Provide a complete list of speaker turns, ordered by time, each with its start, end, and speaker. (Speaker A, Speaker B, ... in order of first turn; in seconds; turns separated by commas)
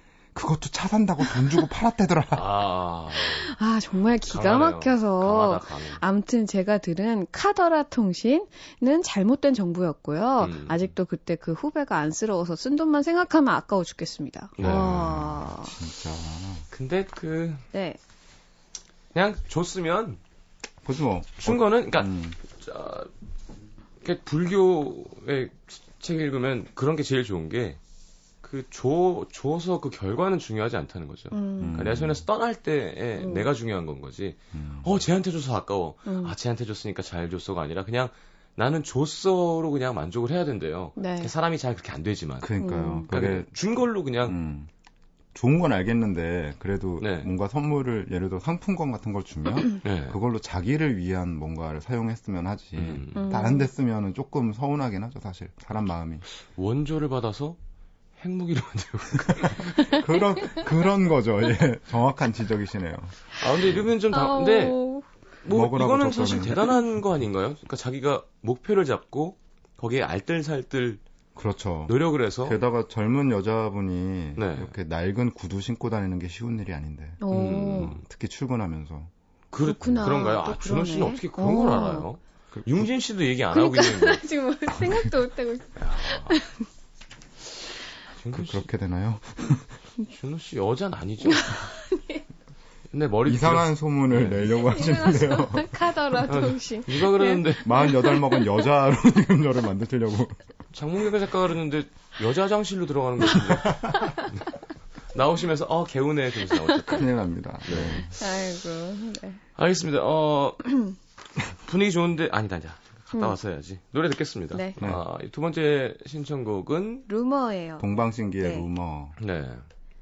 Speaker A: 0.3-2.5, Speaker B: 2.3-3.5, Speaker C: 3.2-15.7, Speaker B: 4.3-6.0, Speaker B: 10.4-10.8, Speaker B: 14.6-15.2, Speaker A: 14.6-16.6, Speaker B: 16.7-17.6, Speaker C: 17.7-18.0, Speaker B: 19.1-20.2, Speaker A: 20.8-22.4, Speaker B: 21.4-23.1, Speaker B: 24.0-27.8, Speaker B: 28.4-42.5, Speaker C: 31.3-31.8, Speaker A: 31.6-32.2, Speaker C: 33.2-33.5, Speaker A: 34.5-34.9, Speaker C: 36.0-36.3, Speaker C: 41.0-41.3, Speaker A: 42.4-43.5, Speaker C: 42.6-43.0, Speaker B: 43.1-44.4, Speaker A: 44.2-44.7, Speaker A: 45.3-56.2, Speaker B: 47.0-47.3, Speaker B: 49.8-50.2, Speaker B: 52.8-53.3, Speaker C: 53.1-53.7, Speaker B: 56.5-57.6, Speaker B: 58.2-59.9, Speaker A: 59.4-63.8, Speaker C: 59.8-60.6, Speaker B: 63.4-64.8, Speaker C: 64.1-65.0, Speaker B: 65.4-71.0, Speaker A: 65.5-66.6, Speaker A: 71.3-77.2, Speaker B: 71.9-72.6, Speaker B: 74.3-74.7, Speaker C: 77.2-78.0, Speaker B: 77.3-78.0, Speaker A: 77.7-79.1, Speaker B: 79.5-84.2, Speaker C: 79.6-82.1, Speaker A: 82.5-82.9, Speaker C: 83.5-86.6, Speaker B: 85.8-86.4, Speaker B: 88.1-88.7, Speaker A: 88.3-89.7, Speaker B: 90.1-91.7, Speaker C: 91.3-92.2, Speaker B: 92.9-94.5, Speaker A: 93.2-95.8, Speaker C: 94.6-98.5, Speaker B: 96.3-97.9, Speaker A: 97.6-100.4, Speaker B: 100.7-104.4, Speaker A: 103.6-104.1, Speaker B: 105.1-107.1, Speaker A: 106.9-108.1, Speaker B: 107.6-108.1, Speaker C: 108.1-109.4, Speaker B: 109.5-110.7, Speaker B: 111.4-117.1, Speaker C: 117.1-117.9, Speaker A: 117.8-119.2, Speaker C: 118.4-118.7, Speaker B: 119.2-119.6